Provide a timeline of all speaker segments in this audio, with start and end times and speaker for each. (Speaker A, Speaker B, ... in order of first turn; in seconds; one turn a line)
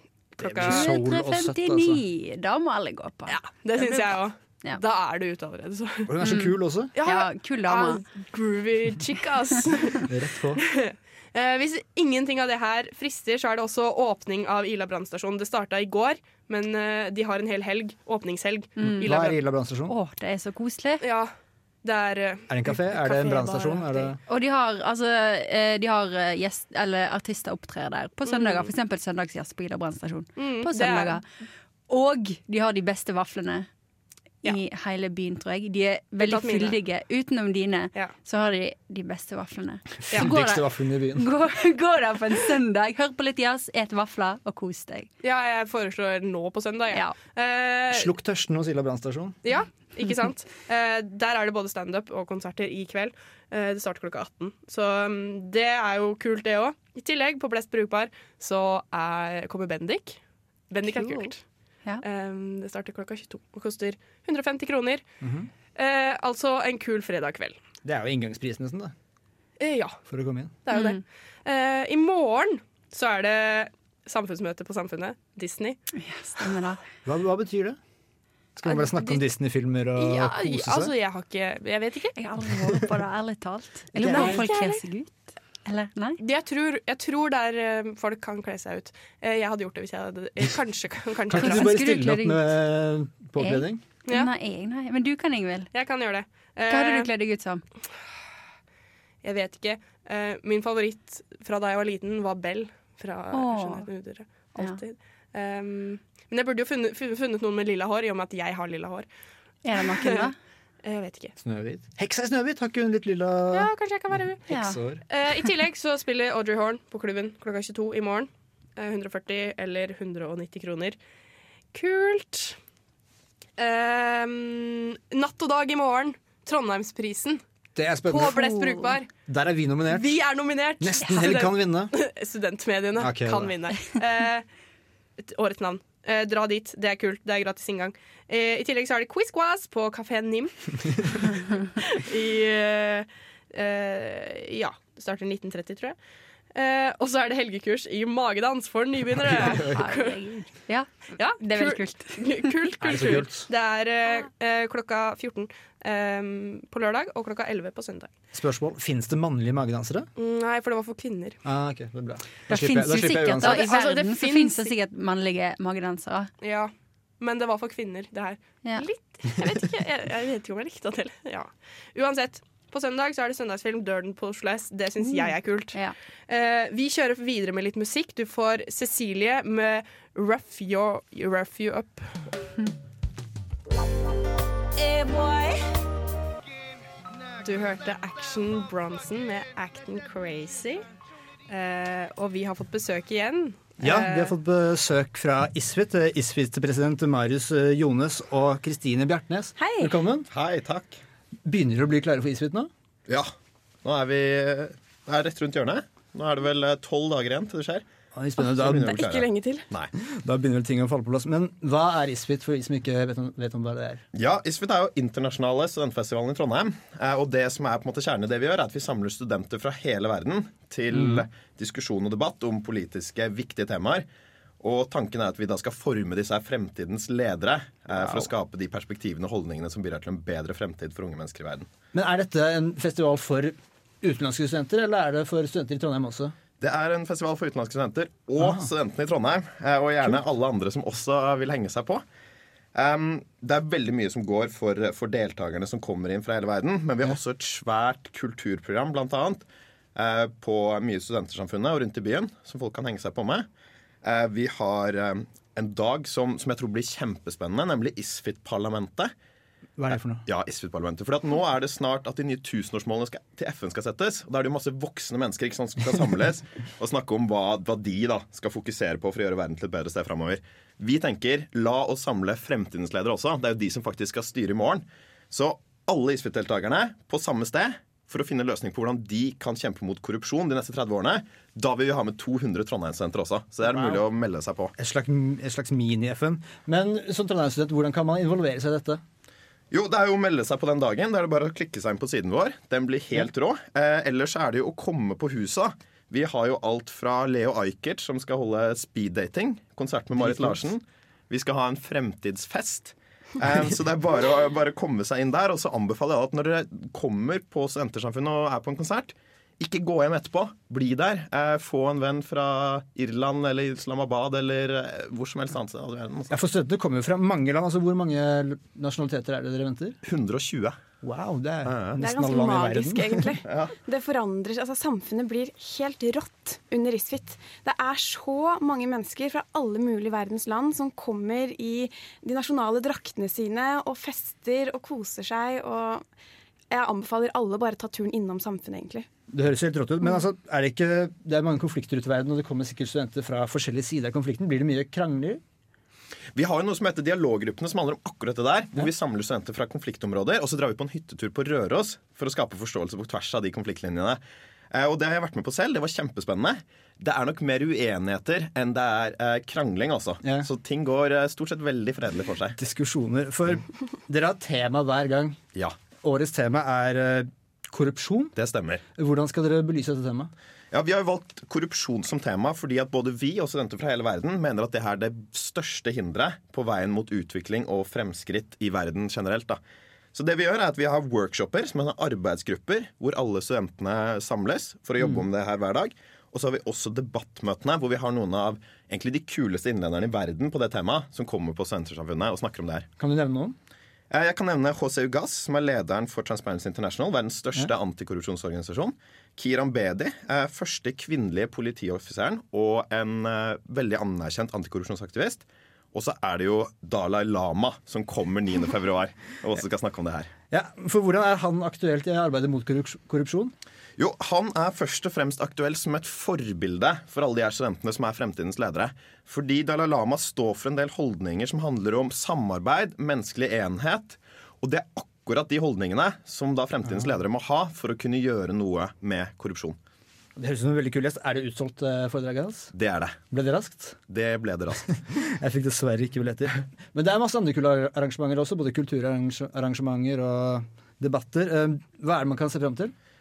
Speaker A: 0.3-1.0
Speaker B: 0.4-2.0
Speaker C: 0.6-4.8
Speaker A: 3.3-6.2
Speaker B: 6.1-6.9
Speaker C: 6.2-8.0
Speaker A: 6.9-19.4
Speaker B: 10.1-10.6
Speaker C: 18.8-19.1
Speaker B: 19.0-19.9
Speaker C: 19.9-21.0
Speaker A: 21.0-21.3
Speaker A: 21.8-24.1
Speaker B: 22.5-24.2
Speaker C: 24.3-31.2
Speaker A: 28.3-28.7
Speaker A: 30.4-31.2
Speaker C: 31.9-33.7
Speaker C: 34.4-45.1
Speaker A: 36.2-36.8
Speaker B: 40.1-41.2
Speaker A: 45.2-48.1
Speaker B: 47.9-49.4
Speaker A: 49.4-61.4
Speaker A: 62.0-65.0
Speaker B: 65.2-65.5
Speaker A: 65.8-67.6
Speaker B: 67.8-68.9
Speaker A: 69.6-70.0
Speaker B: 70.1-70.5
Speaker A: 70.6-75.8
Speaker C: 70.7-71.0
Speaker C: 75.9-76.8
Speaker B: 77.0-77.8
Speaker B: 78.5-80.9
Speaker A: 80.0-82.2
Speaker C: 82.2-86.2
Speaker B: 83.9-84.5
Speaker A: 84.0-84.8
Speaker A: 86.2-91.8
Speaker B: 91.3-93.8
Speaker C: 91.3-92.5
Speaker C: 93.4-95.7
Speaker A: 95.7-97.1
Speaker C: 96.7-97.6
Speaker A: 99.2-109.1
Speaker C: 103.3-103.9
Speaker C: 109.6-110.3
Speaker A: 109.8-110.3
Speaker A: 110.8-111.3
Speaker B: 111.4-115.0
Speaker A: 113.5-114.5
Speaker C: 114.5-114.8
Speaker A: 115.1-121.0
Speaker A: 121.7-122.6
Speaker A: 123.6-127.4
Speaker B: 127.8-130.2
Speaker A: 128.0-129.1
Speaker A: 129.9-134.4
Speaker B: 130.8-131.9
Speaker B: 133.0-133.5
Speaker A: 135.2-145.9
Speaker A: 146.5-150.1
Speaker B: 149.2-149.9
Speaker C: 149.4-152.5
Speaker A: 151.2-158.1
Speaker B: 152.8-153.5
Speaker B: 158.3-160.1
Speaker A: 160.2-161.4
Speaker B: 161.4-163.7
Speaker C: 162.5-166.3
Speaker A: 163.4-164.7
Speaker A: 166.4-182.2
Speaker C: 175.0-175.9
Speaker A: 184.8-185.6
Speaker A: 187.4-190.8
Speaker A: 191.5-194.3
Speaker B: 193.8-200.3
Speaker D: 200.3-201.0
Speaker B: 201.4-202.7
Speaker D: 203.8-207.8
Speaker B: 208.1-209.1
Speaker D: 208.6-209.9
Speaker B: 210.0-214.0
Speaker D: 214.1-224.1
Speaker B: 220.9-221.2
Speaker D: 224.6-231.7
Speaker B: 227.9-228.3
Speaker B: 231.9-236.3
Speaker D: 236.6-242.0
Speaker B: 238.4-238.7
Speaker D: 242.7-249.4
Speaker D: 249.9-253.5
Speaker D: 254.0-259.1
Speaker B: 259.8-260.2
Speaker D: 259.9-284.7
Speaker B: 283.6-284.0
Speaker B: 284.8-289.0
Speaker D: 289.7-316.4
Speaker B: 300.1-300.6
Speaker B: 316.3-320.0
Speaker D: 320.0-320.8
Speaker B: 321.0-323.4
Speaker D: 321.6-322.0
Speaker E: 322.0-336.1
Speaker D: 323.4-323.7
Speaker E: 336.7-339.1
Speaker B: 339.3-345.4
Speaker D: 346.3-354.2
Speaker D: 354.7-362.6
Speaker B: 360.2-360.5
Speaker B: 362.6-365.4
Speaker B: 366.0-368.3
Speaker D: 368.3-368.8
Speaker B: 368.9-370.3
Speaker D: 370.7-379.6
Speaker D: 380.1-392.9
Speaker B: 393.0-393.6
Speaker D: 394.1-410.3
Speaker B: 410.5-413.5
Speaker D: 414.0-429.8
Speaker B: 430.4-432.7
Speaker D: 432.7-433.3
Speaker B: 433.3-434.0
Speaker D: 434.1-434.9
Speaker B: 435.1-442.9